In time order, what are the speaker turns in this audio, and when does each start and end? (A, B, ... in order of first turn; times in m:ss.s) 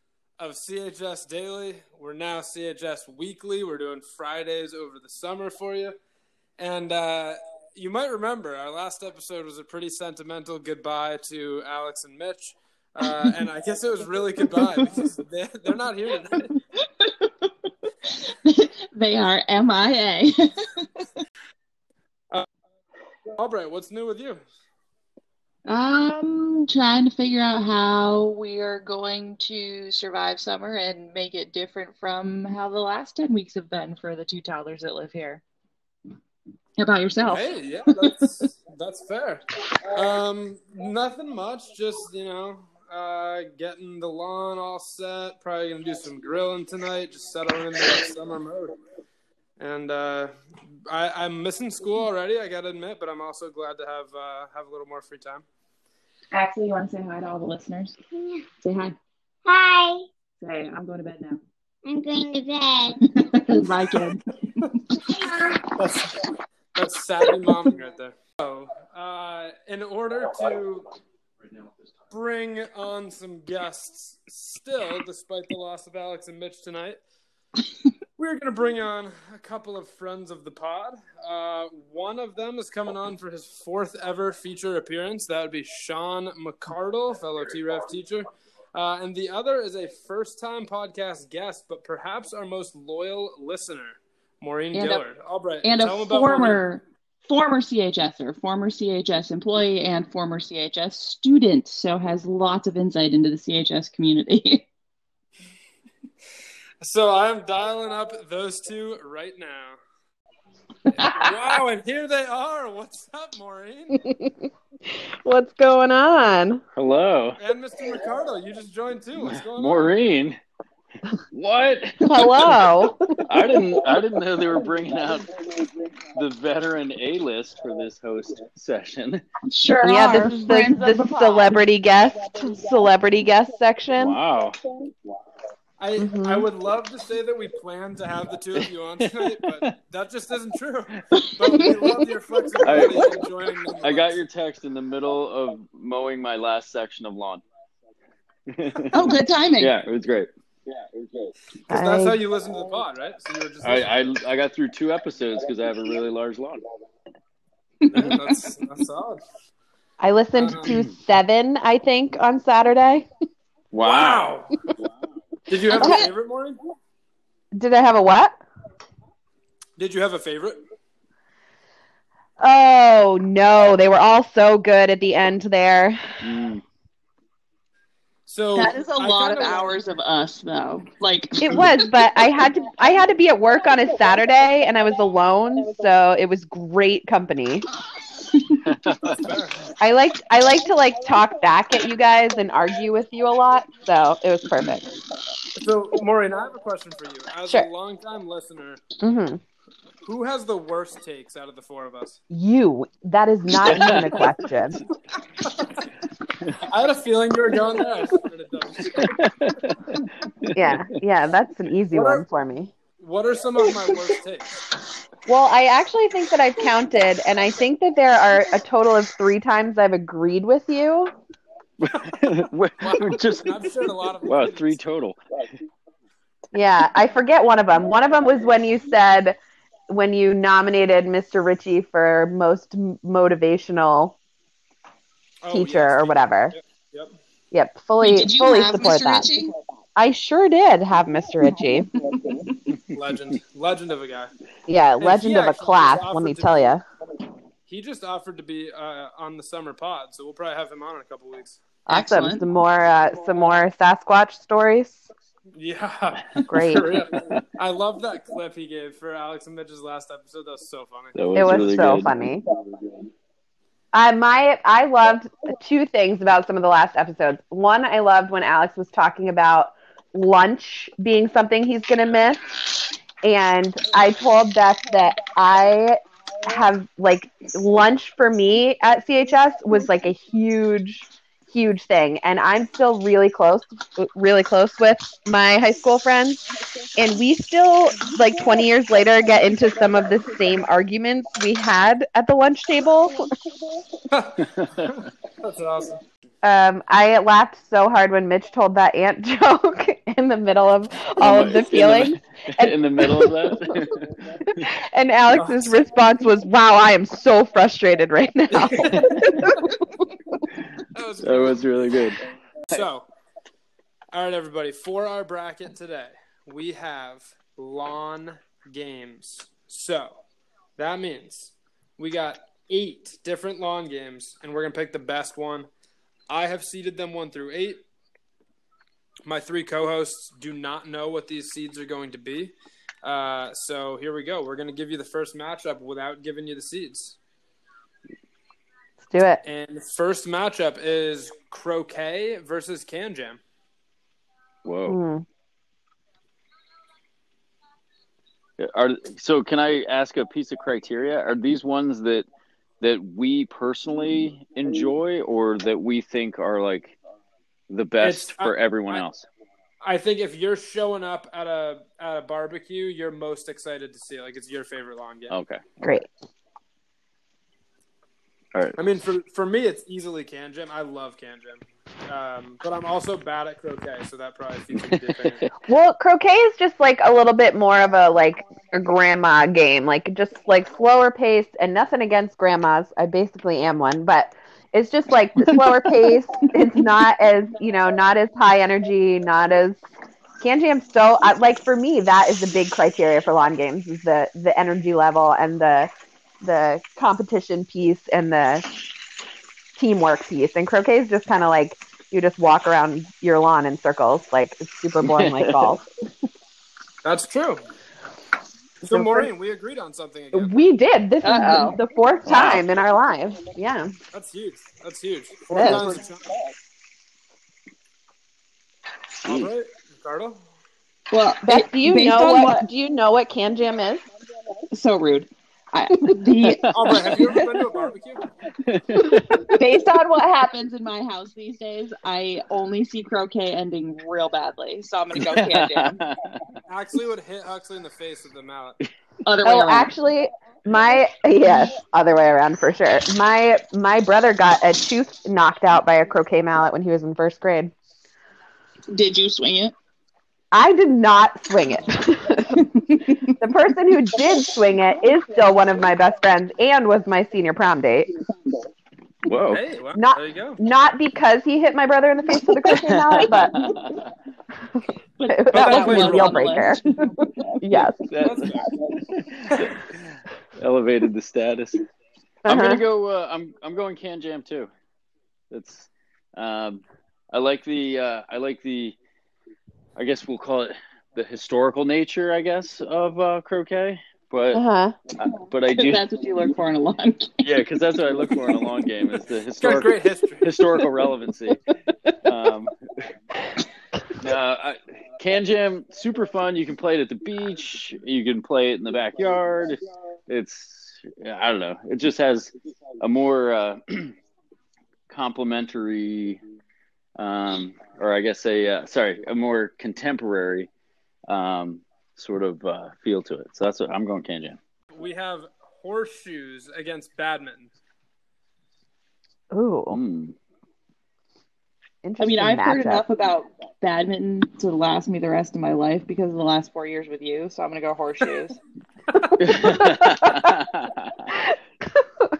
0:00.4-0:06.0 A
0:06.6-0:16.5 A
0:13.0-0:13.4 B
0:14.4-0:15.0 B
0:17.0-0:17.5 B
0:18.0-0:20.9 B
0:23.4-0:24.4 A
0:25.6-0:35.4 B
0:36.8-0:38.2 B
0:37.3-0:48.8 A
0:49.6-0:50.3 A
0:50.9-0:55.4 A
0:56.3-0:58.0 B
0:58.1-0:58.5 C
0:58.6-0:58.9 B
0:59.4-1:00.0 C
1:00.4-1:01.4 B
1:01.8-1:03.0 C
1:03.1-1:05.0 B
1:05.0-1:05.6 C
1:06.8-1:10.9 A
1:12.1-1:17.0 A
1:18.2-1:36.6 A
1:34.7-1:35.0 B
1:35.6-1:44.6 B
1:46.8-1:49.8 A
1:50.9-1:54.0 A
1:51.0-1:51.3 B
1:54.0-1:56.6 D
1:56.8-1:57.4 E
1:57.4-2:00.0 A
1:59.2-2:00.4 E
2:01.3-2:02.7 E
2:02.0-2:03.2 D
2:03.2-2:05.3 E
2:06.1-2:09.7 E
2:09.5-2:11.6 B
2:09.8-2:14.1 D
2:14.0-2:14.6 E
2:15.8-2:24.2 A
2:16.0-2:16.5 D
2:18.6-2:19.7 E
2:21.2-2:21.8 B
2:22.6-2:23.1 E
2:23.8-2:27.4 E
2:28.5-2:30.3 E
2:28.9-2:29.7 B
2:31.7-2:34.2 A
2:31.7-2:32.2 D
2:33.6-2:36.6 E
2:37.8-2:38.3 B
2:37.9-2:39.2 A
2:40.0-2:43.1 D
2:40.4-2:40.8 A
2:43.7-2:44.3 E
2:43.8-2:44.5 A
2:45.5-2:46.6 A
2:45.7-2:46.1 B
2:45.8-2:46.0 D
2:47.5-2:48.4 D
2:49.8-2:50.6 A
2:52.4-2:56.2 D
2:56.2-2:56.6 E
2:58.3-2:59.8 A
2:58.5-3:01.8 B
3:01.4-3:07.7 D
3:08.3-3:08.6 B
3:08.6-3:09.3 E
3:09.0-3:09.6 A
3:09.8-3:14.9 D
3:15.6-3:18.8 A
3:19.0-3:19.4 D
3:20.0-3:22.2 A
3:22.3-3:24.8 D
3:23.6-3:24.3 E
3:25.4-3:25.7 A
3:26.6-3:29.3 A
3:28.9-3:30.9 E
3:30.5-3:32.7 D
3:31.9-3:32.2 A
3:33.0-3:34.5 A
3:35.2-3:41.1 D
3:41.8-3:43.7 E
3:42.8-3:44.8 A
3:44.2-3:45.2 E
3:46.5-3:49.4 D
3:49.9-3:54.2 D
3:55.4-3:57.2 A
3:55.5-3:56.6 D
3:57.5-3:59.3 D
3:58.0-3:59.5 B
4:00.0-4:01.9 D
4:02.9-4:04.3 A
4:04.7-4:06.8 D
4:05.0-4:06.7 A
4:07.7-4:11.6 A
4:11.9-4:15.0 D
4:11.9-4:12.4 B
4:15.5-4:21.3 A
4:16.5-4:17.0 D
4:21.1-4:22.4 E
4:21.3-4:22.4 D
4:23.9-4:32.6 D
4:33.2-4:46.4 D
4:46.9-4:53.3 D
4:54.1-4:56.0 A
4:54.4-4:54.9 E
4:56.4-5:03.7 D
5:01.2-5:04.7 E
5:04.5-5:09.7 D
5:05.3-5:05.7 A
5:08.5-5:09.5 A
5:08.9-5:09.2 E
5:10.9-5:11.6 A
5:11.2-5:12.8 E
5:12.7-5:13.1 A
5:14.1-5:20.2 A
5:20.8-5:25.7 A
5:26.3-5:27.8 A
5:29.2-5:37.2 A
5:39.0-5:39.4 D
5:39.4-5:43.4 A
5:44.6-5:45.0 E
5:44.9-5:45.2 D
5:48.6-5:52.2 E
5:52.8-5:57.0 E
5:57.7-5:59.3 E
5:58.0-5:59.0 A
5:59.8-6:05.3 A
6:05.3-6:05.6 E
6:05.8-6:06.1 D
6:08.5-6:08.8 E
6:08.8-6:15.4 A
6:14.7-6:15.5 E
6:15.6-6:29.8 D
6:25.4-6:25.7 B
6:30.4-6:38.7 D
6:39.8-6:45.8 D
6:45.0-6:45.7 E
6:47.0-6:47.6 A
6:48.8-6:49.3 D
6:48.9-6:50.5 A
6:50.3-6:53.9 D
6:51.2-6:51.8 B
6:52.3-6:52.6 E
6:54.1-6:56.2 A
6:55.5-6:56.0 D
6:59.2-7:00.4 A
7:01.1-7:02.7 B
7:01.4-7:04.0 D
7:04.7-7:07.4 B
7:06.4-7:06.9 E
7:06.7-7:08.2 A
7:08.6-7:09.4 E
7:09.5-7:16.0 B
7:15.1-7:16.4 E
7:16.7-7:18.8 A
7:19.2-7:19.9 B
7:19.4-7:27.7 D
7:28.9-7:29.7 B
7:30.5-7:32.7 D
7:32.7-7:33.3 B
7:33.4-7:38.1 D
7:39.2-7:39.6 E
7:39.5-7:40.6 A
7:39.9-7:43.7 D
7:42.8-7:44.1 E
7:45.2-7:47.1 B
7:45.3-7:46.8 D
7:45.5-7:46.7 A
7:47.6-7:48.0 D
7:48.1-7:51.8 E
7:48.2-7:48.8 A
7:49.4-7:49.7 A
7:52.4-7:52.8 D
7:52.5-7:54.7 E
7:55.5-7:59.0 E
8:00.0-8:04.6 E
8:04.5-8:05.0 D
8:05.2-8:06.0 E
8:05.7-8:07.5 B
8:07.4-8:11.6 E
8:09.6-8:10.5 A
8:12.2-8:13.1 E
8:14.2-8:24.2 E
8:25.1-8:26.4 E
8:27.2-8:30.7 E
8:31.3-8:34.6 E
8:34.9-8:37.7 A
8:39.5-8:40.0 D
8:39.9-8:40.4 E
8:42.0-8:43.0 D
8:42.2-8:48.6 B
8:49.4-8:51.3 E
8:49.6-8:50.5 D
8:51.4-8:52.0 D